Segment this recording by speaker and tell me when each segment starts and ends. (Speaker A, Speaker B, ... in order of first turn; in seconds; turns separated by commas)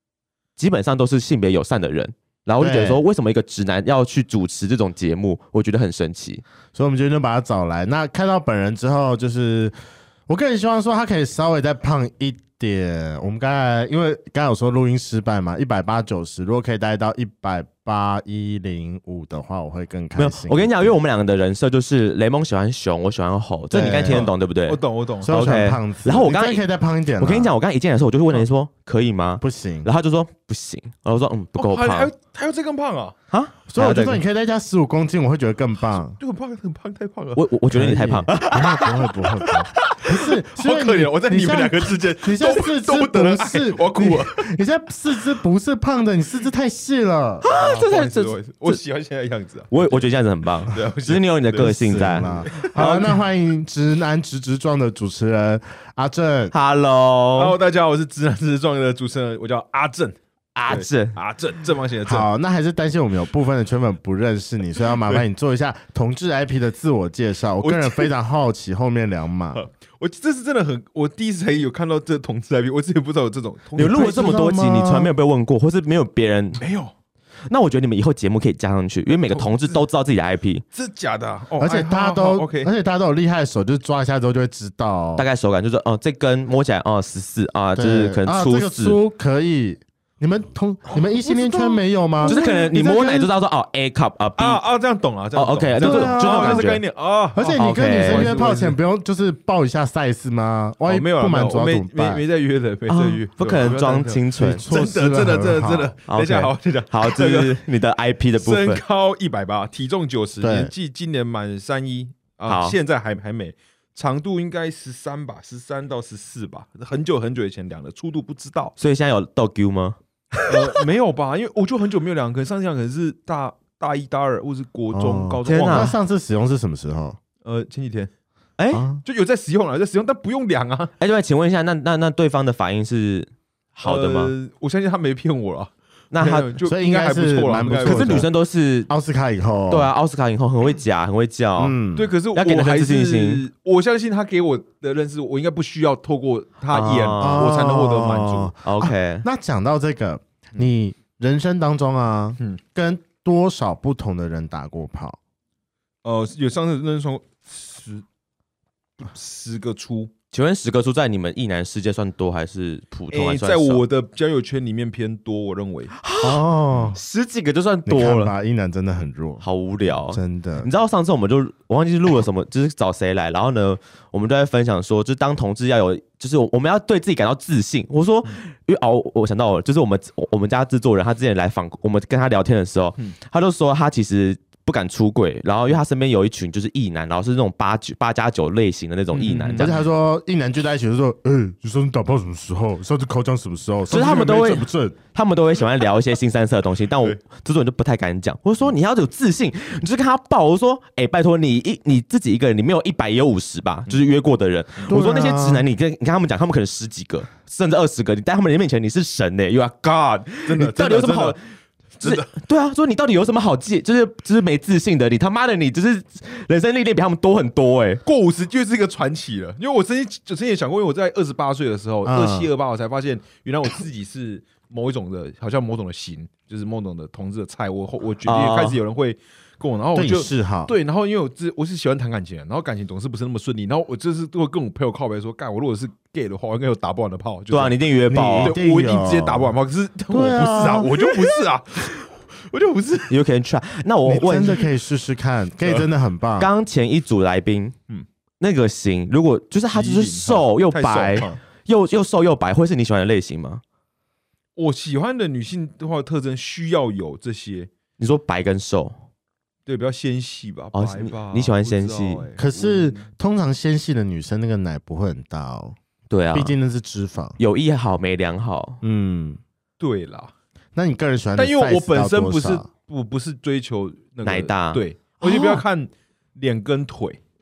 Speaker A: 0.6-6.4, Speaker B: 2.6-3.0, Speaker B: 6.8-9.8, Speaker B: 10.3-20.9, Speaker A: 20.2-26.6, Speaker B: 23.7-24.3, Speaker C: 24.1-25.3, Speaker B: 25.2-27.5, Speaker A: 27.2-32.1, Speaker B: 29.4-29.9, Speaker C: 31.6-33.1, Speaker A: 33.3-34.2, Speaker B: 33.7-36.2, Speaker C: 36.2-37.5, Speaker A: 37.4-39.5, Speaker B: 37.7-47.4, Speaker C: 39.8-44.5, Speaker C: 47.4-50.0, Speaker A: 47.4-48.8, Speaker A: 49.7-53.2, Speaker C: 50.7-52.9, Speaker B: 51.6-56.5, Speaker A: 56.5-57.6, Speaker C: 57.4-60.2, Speaker A: 60.5-61.2, Speaker C: 60.7-62.3, Speaker B: 62.1-69.6, Speaker C: 67.6-68.1, Speaker C: 69.5-74.3, Speaker A: 73.8-76.6, Speaker B: 73.8-75.1, Speaker C: 76.6-76.9, Speaker A: 77.5-80.7, Speaker C: 79.3-79.8, Speaker C: 80.7-82.7, Speaker B: 81.6-85.2, Speaker A: 85.2-89.0, Speaker B: 87.8-93.3, Speaker C: 90.9-92.4, Speaker A: 92.2-94.6, Speaker C: 94.4-98.8, Speaker A: 95.3-96.8, Speaker B: 95.8-96.8, Speaker B: 97.4-102.2, Speaker A: 97.6-98.3, Speaker C: 100.9-107.6, Speaker A: 102.9-104.7, Speaker B: 104.4-105.9, Speaker A: 106.1-108.8, Speaker C: 108.4-118.8, Speaker B: 110.4-110.7, Speaker A: 112.5-112.8, Speaker A: 118.8-120.8, Speaker C: 120.5-125.9, Speaker B: 124.9-127.2, Speaker A: 125.5-125.9, Speaker C: 127.4-128.1, Speaker A: 128.6-128.9, Speaker B: 128.7-129.0, Speaker C: 129.0-130.9, Speaker A: 131.0-134.3, Speaker C: 133.8-138.3, Speaker A: 136.1-136.5, Speaker B: 136.6-138.3, Speaker A: 137.9-138.9, Speaker B: 138.9-139.9, Speaker A: 139.7-141.8, Speaker B: 141.6-142.1, Speaker C: 141.9-148.5, Speaker A: 142.3-143.4, Speaker A: 146.7-147.5, Speaker B: 147.2-155.2, Speaker A: 148.6-149.2, Speaker C: 156.0-158.0, Speaker C: 159.0-160.1, Speaker A: 160.3-163.8, Speaker C: 163.1-165.9, Speaker A: 166.0-168.3, Speaker B: 166.2-167.0, Speaker B: 167.9-169.4, Speaker A: 169.4-189.7, Speaker B: 170.1-170.7, Speaker C: 189.1-189.8, Speaker B: 189.6-195.0, Speaker A: 193.9-211.4, Speaker C: 193.9-194.6, Speaker B: 204.9-205.7, Speaker C: 209.9-211.4, Speaker C: 212.0-212.3, Speaker A: 212.0-218.0, Speaker C: 218.1-237.8, Speaker B: 222.1-222.5, Speaker A: 228.3-228.8, Speaker B: 230.0-230.7, Speaker A: 237.5-238.6, Speaker B: 238.1-239.6, Speaker C: 238.4-243.2, Speaker B: 240.1-240.9, Speaker A: 243.1-244.7, Speaker B: 244.1-246.5, Speaker C: 245.6-245.9, Speaker A: 246.4-247.8, Speaker A: 248.4-253.6, Speaker C: 249.7-251.4, Speaker C: 254.6-257.7, Speaker A: 258.0-259.0, Speaker C: 259.7-263.1, Speaker A: 260.7-262.3, Speaker B: 262.4-265.8, Speaker A: 266.1-266.6, Speaker B: 266.3-267.4, Speaker A: 267.4-268.8, Speaker B: 268.8-269.4, Speaker C: 269.8-270.3, Speaker B: 270.8-272.7, Speaker C: 271.4-277.2, Speaker A: 274.2-274.8